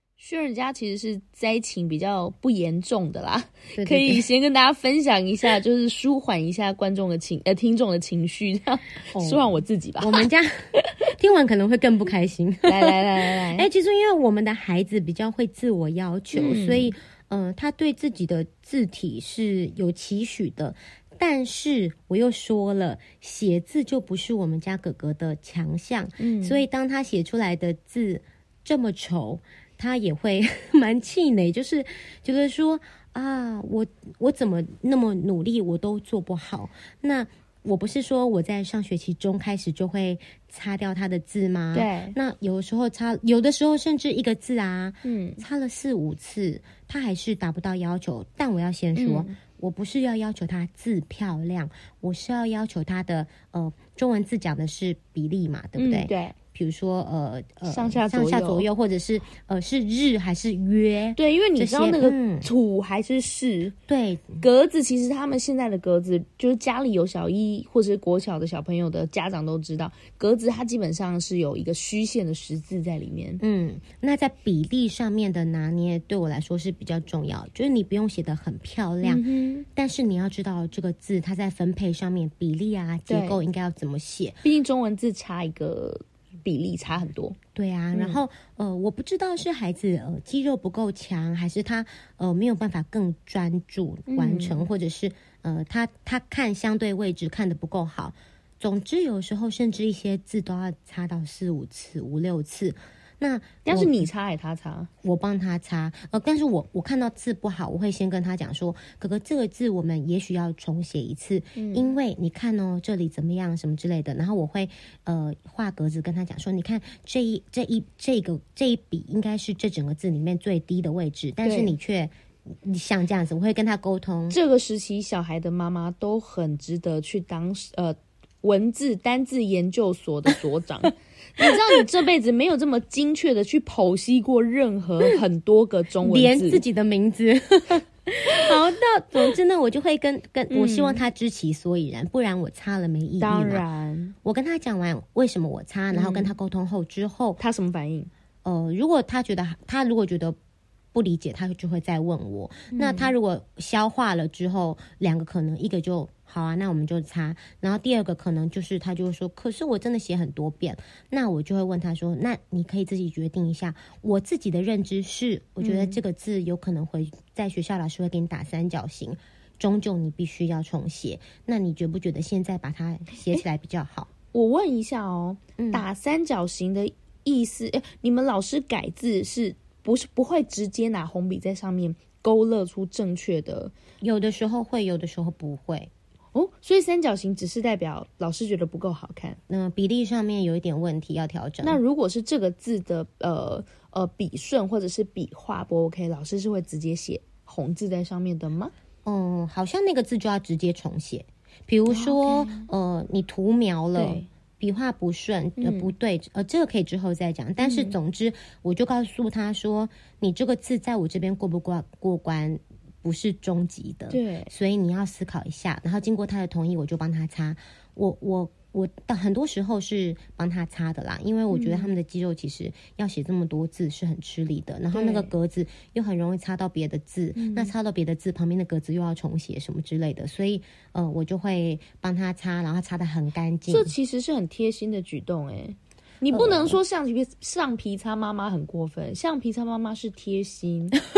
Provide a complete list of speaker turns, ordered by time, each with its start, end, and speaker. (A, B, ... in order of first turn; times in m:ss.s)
0:00.2-0:10.3 A
0:03.8-0:04.2 B
0:09.1-1:02.5 B
0:12.6-0:13.6 A
0:16.3-0:16.9 A
0:26.2-0:26.6 A
0:41.7-0:42.2 A
0:45.0-0:45.4 A
0:48.9-0:49.4 A
0:55.8-0:56.4 A
0:57.7-0:58.7 A
1:01.2-1:03.8 A
1:03.9-1:04.4 B
1:04.4-1:13.4 A
1:13.4-1:24.4 B
1:19.0-1:19.6 A
1:23.1-1:23.4 A
1:24.4-1:27.4 A
1:27.5-1:44.1 B
1:27.9-1:28.2 A
1:34.1-1:34.6 A
1:43.6-1:44.9 A
1:45.0-2:04.4 B
1:51.5-1:51.9 A
2:01.4-2:01.8 A
2:04.3-2:16.6 A
2:11.4-2:11.8 B
2:16.0-2:23.6 B
2:20.5-2:21.0 A
2:23.2-2:24.1 A
2:24.2-2:27.4 B
2:25.9-2:26.3 A
2:27.4-2:28.1 A
2:28.4-2:30.4 B
2:30.9-2:54.1 B
2:32.7-2:33.1 A
2:45.6-2:46.0 A
2:54.3-3:03.7 A
2:55.6-2:55.8 B
3:04.0-3:05.9 B
3:06.3-3:09.4 A
3:09.5-3:11.8 B
3:11.6-3:18.7 A
3:19.0-3:53.9 B
3:21.9-3:22.7 A
3:23.9-3:24.3 A
3:25.6-3:25.9 A
3:27.6-3:27.9 A
3:34.1-3:34.5 A
3:41.5-3:41.9 A
3:44.9-3:45.3 A
3:47.4-3:47.7 A
3:53.7-4:01.0 A
3:56.3-3:56.8 B